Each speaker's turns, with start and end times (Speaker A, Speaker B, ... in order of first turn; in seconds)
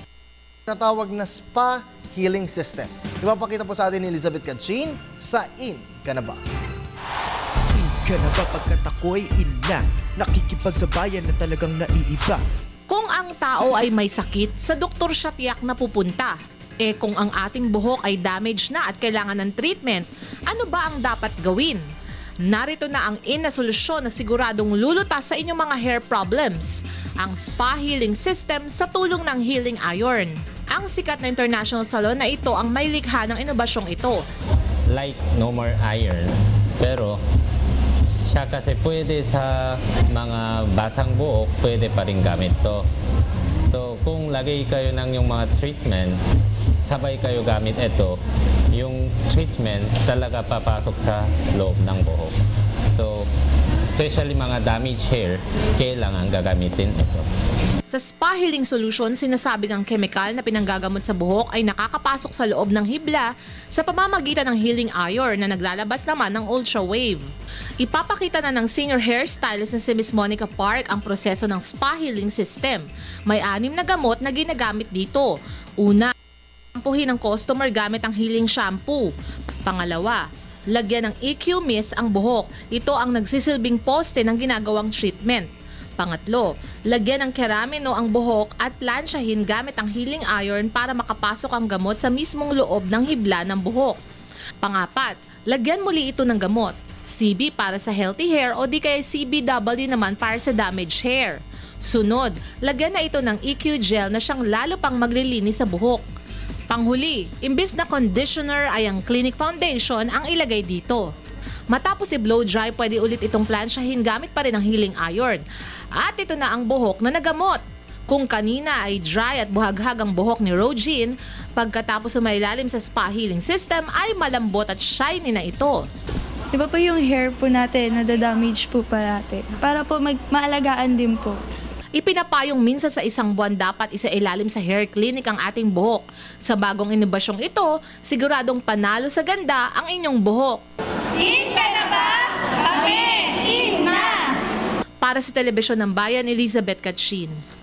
Speaker A: 0.7-6.4
Speaker B: 7.7-12.4
Speaker C: 12.9-21.8, 22.4-34.2, 57.9-67.2, 67.8-76.1, 76.7-79.1, 79.7-94.0, 94.6-106.0, 106.7-111.1, 111.7-115.4, 116.0-125.9, 132.0-140.6, 145.0-147.4
Speaker D: 34.9-37.2, 38.3-42.9, 43.7-46.2, 46.8-48.2, 48.7-52.3, 52.9-53.3, 53.9-57.3
Speaker E: 126.5-131.4